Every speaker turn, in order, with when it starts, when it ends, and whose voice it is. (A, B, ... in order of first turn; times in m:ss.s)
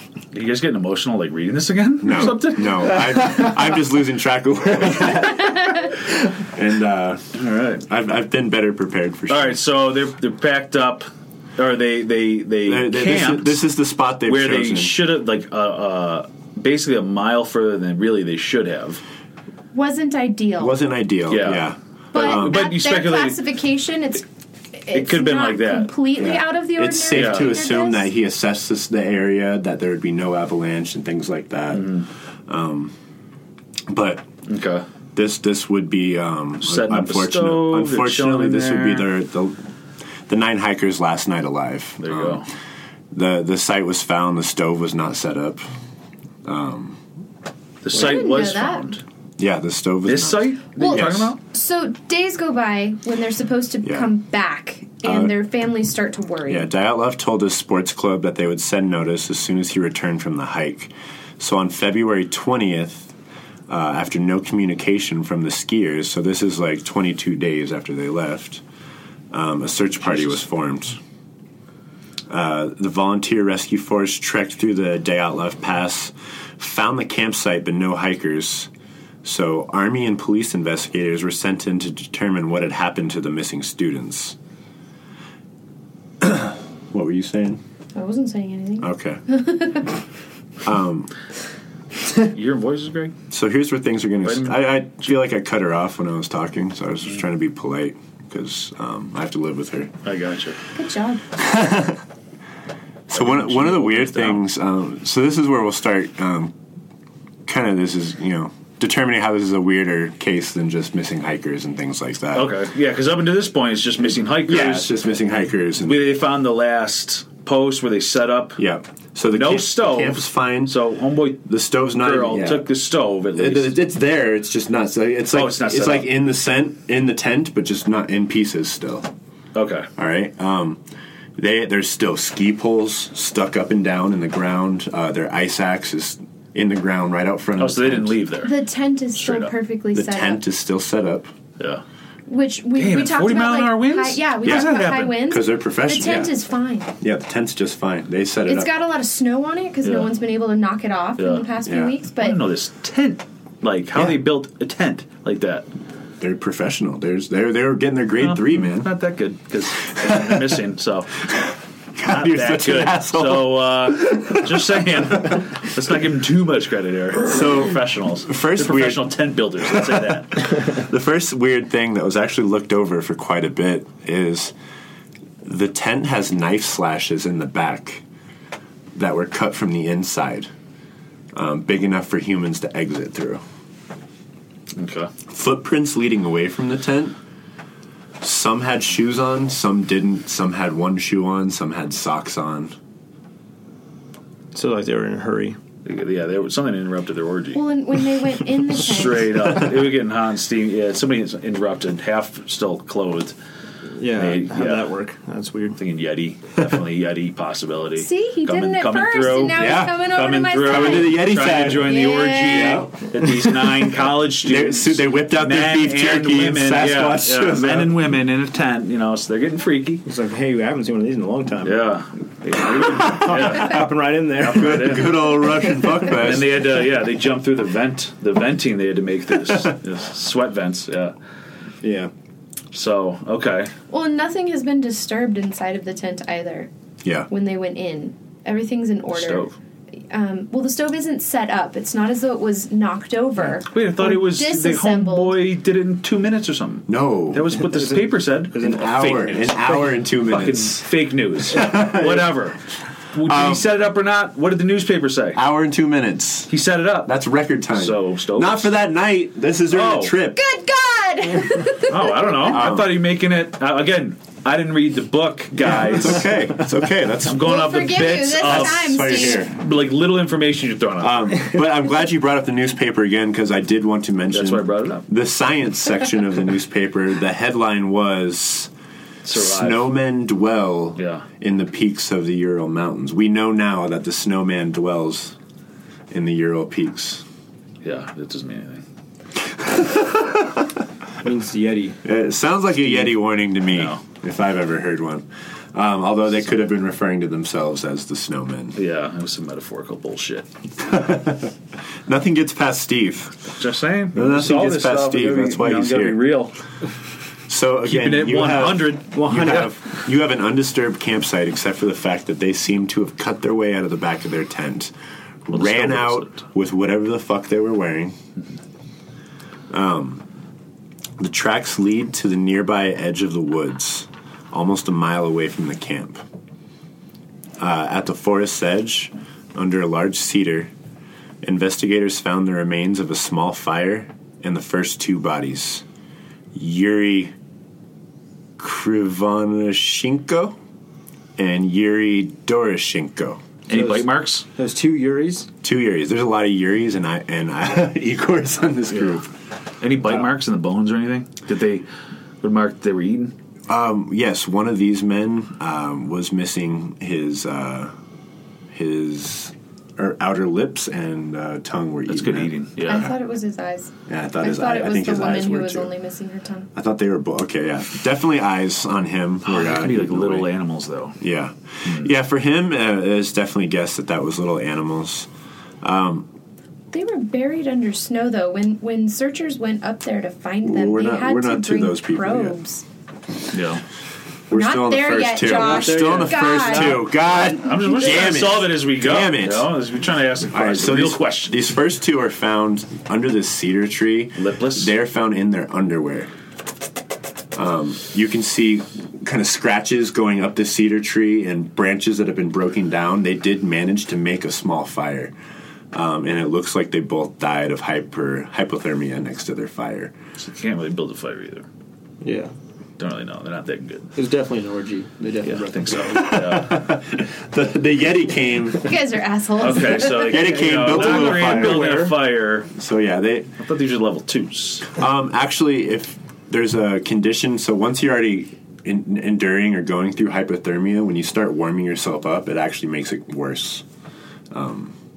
0:00.3-0:03.2 A
0:02.0-0:09.6 B
0:07.3-0:07.8 A
0:09.3-0:13.6 A
0:12.6-0:15.0 B
0:14.2-0:19.0 A
0:19.7-0:20.8 C
0:20.6-0:22.6 B
0:21.3-0:23.4 A
0:22.1-0:24.2 C
0:24.8-0:28.0 C
0:24.9-0:26.0 A
0:26.2-0:32.9 B
0:27.1-0:27.5 A
0:31.7-0:32.0 A
0:33.9-0:34.2 B
0:34.5-0:34.8 A
0:35.1-0:39.6 B
0:36.6-0:39.1 A
0:40.3-0:42.4 B
0:42.0-0:42.4 A
0:43.1-0:45.6 B
0:46.4-0:47.0 B
0:47.8-0:49.0 A
0:47.9-0:49.0 C
0:49.4-0:51.3 B
0:50.0-0:51.4 A
0:50.8-0:56.7 C
0:53.8-0:54.1 B
0:55.0-0:55.3 B
0:56.5-1:03.1 B
1:03.7-1:08.6 B
1:09.3-1:11.0 B
1:12.3-1:18.7 B
1:19.2-1:24.4 B
1:26.2-1:27.6 B
1:27.9-1:29.9 C
1:28.8-1:29.2 B
1:30.6-1:31.1 B
1:32.2-1:33.1 A
1:33.3-1:39.9 B
1:34.2-1:34.9 A
1:40.0-1:40.6 A
1:40.7-1:41.2 C
1:41.4-1:42.0 B
1:43.1-1:46.5 B
1:43.1-1:44.4 A
1:47.4-1:52.6 B
1:52.3-1:54.9 A
1:54.4-1:56.0 B
1:55.8-1:58.6 A
1:58.6-2:00.8 B
1:59.3-2:03.7 A
2:01.4-2:02.7 B
2:03.4-2:09.1 B
2:05.3-2:06.1 A
2:09.5-2:09.9 A
2:10.0-2:10.8 B
2:11.4-2:18.2 B
2:17.6-2:18.5 A
2:18.4-2:20.4 C
2:19.2-2:19.5 A
2:19.9-2:21.3 B
2:22.3-2:26.9 C
2:22.8-2:25.2 A
2:25.2-2:26.3 B
2:27.0-2:28.7 B
2:28.5-2:32.4 C
2:29.8-2:30.1 A
2:31.2-2:31.5 A
2:31.6-2:31.9 B
2:32.2-2:35.7 A
2:36.2-2:38.9 B
2:38.2-2:41.3 A
2:39.9-2:40.4 B
2:41.3-2:44.8 B
2:42.0-2:50.6 A
2:47.2-2:49.1 B
2:49.8-2:54.5 B
2:55.4-2:58.0 B
2:58.9-3:00.5 B
3:01.3-3:03.4 B
3:04.7-3:05.1 A
3:05.3-3:07.2 B
3:08.2-3:12.7 B
3:14.5-3:15.6 D
3:15.8-3:17.6 A
3:17.5-3:19.4 C
3:18.6-3:23.3 A
3:24.0-3:25.8 D
3:24.2-3:24.9 A
3:25.8-3:40.0 A
3:28.0-3:32.9 C
3:29.5-3:32.9 B
3:34.4-3:37.9 B
3:40.0-3:41.9 D
3:41.6-3:43.9 A
3:42.6-3:45.3 D
3:44.4-3:45.3 A
3:44.4-3:46.6 B
3:46.0-3:51.1 A
3:51.8-3:52.1 D
3:52.7-3:53.7 A
3:53.9-3:56.7 C
3:57.3-3:59.5 C
3:59.1-3:59.5 A
4:00.1-4:05.4 C
4:03.5-4:12.6 A
4:06.9-4:07.6 B
4:07.7-4:09.4 D
4:08.6-4:10.8 B
4:11.5-4:12.3 B
4:13.1-4:15.4 A
4:13.2-4:13.6 B
4:15.3-4:16.5 B
4:16.5-4:17.1 A
4:17.0-4:20.4 B
4:17.7-4:18.7 A
4:19.7-4:20.2 A
4:20.3-4:22.6 C
4:21.9-4:26.3 A
4:22.4-4:23.0 B
4:25.6-4:27.6 B
4:27.2-4:31.2 A
4:27.4-4:29.5 C
4:28.4-4:29.6 B
4:31.0-4:38.7 B
4:34.3-4:35.0 A
4:39.2-4:39.9 A
4:39.3-4:45.4 B
4:41.0-4:41.2 A
4:46.1-4:47.2 B
4:47.8-4:48.8 A
4:49.4-4:50.8 B
4:51.2-4:52.0 D
4:52.0-4:58.8 B
4:53.7-4:54.0 A
4:58.7-5:00.5 A
5:00.8-5:01.5 B
5:02.0-5:03.5 B
5:03.6-5:06.6 A
5:04.1-5:06.2 B
5:07.5-5:14.9 B
5:07.8-5:09.7 A
5:09.2-5:09.7 D
5:15.4-5:18.2 B
5:15.5-5:16.4 A
5:19.7-5:20.2 B
5:21.2-5:26.2 B
5:27.6-5:30.7 B
5:31.4-5:35.8 B
5:36.5-5:37.3 B
5:38.6-5:40.6 B
5:41.4-5:43.4 B
5:43.7-5:44.4 A
5:43.7-5:45.5 D
5:45.6-5:49.3 B
5:49.8-5:51.8 A
5:52.4-5:53.3 A
5:53.7-5:57.9 B
5:58.7-6:03.1 B
6:02.1-6:03.1 A
6:02.8-6:06.7 C
6:04.1-6:05.9 B
6:06.7-6:10.5 B
6:09.4-6:11.2 A
6:11.2-6:15.3 B
6:15.8-6:16.3 B
6:16.9-6:22.8 C
6:20.6-6:22.6 B
6:23.5-6:23.8 A
6:24.5-6:29.7 B
6:24.5-6:28.4 C
6:25.7-6:27.0 A
6:26.0-6:26.4 D
6:27.5-6:31.6 A
6:30.5-6:36.3 B
6:34.4-6:34.9 A
6:37.5-6:45.3 B
6:45.9-6:50.1 B
6:50.4-6:51.6 A
6:52.2-6:52.5 D
6:53.0-6:54.1 A
6:54.1-6:56.1 D
6:55.4-6:56.8 A
6:56.0-6:58.9 B
6:58.8-7:00.4 C
6:59.6-7:02.7 A
7:00.1-7:02.0 B
7:00.8-7:02.1 D
7:02.7-7:03.5 B
7:03.6-7:04.9 A
7:04.9-7:13.8 B
7:14.5-7:14.9 B